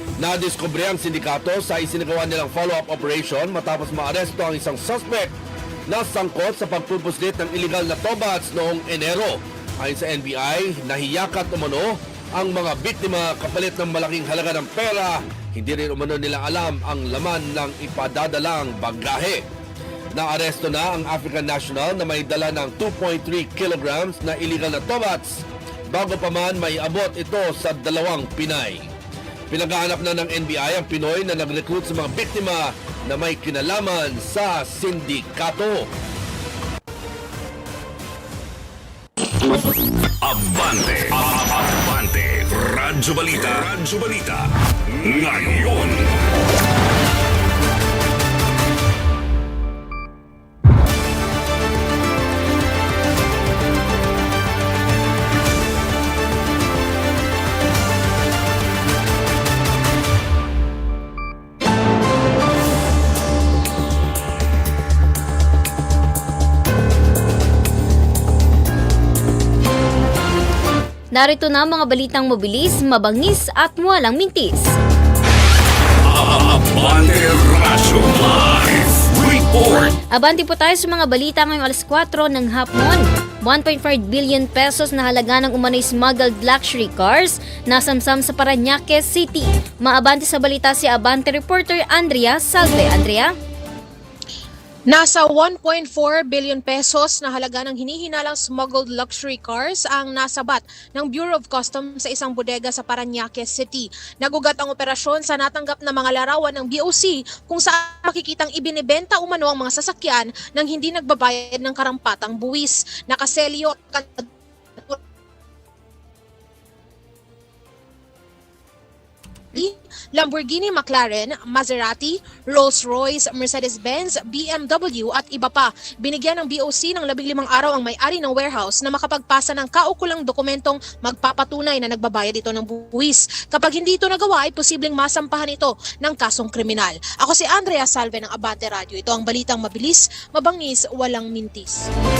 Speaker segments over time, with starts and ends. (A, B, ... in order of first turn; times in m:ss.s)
0:00.2-0:05.3 A
0:05.9-0:19.4 A
0:20.2-0:28.9 A
0:29.5-0:35.9 A
0:40.2-0:46.2 B
1:11.1-1:14.8 C
1:16.1-1:19.9 B
1:20.1-1:33.3 C
1:34.9-1:55.0 D
1:59.6-2:21.9 D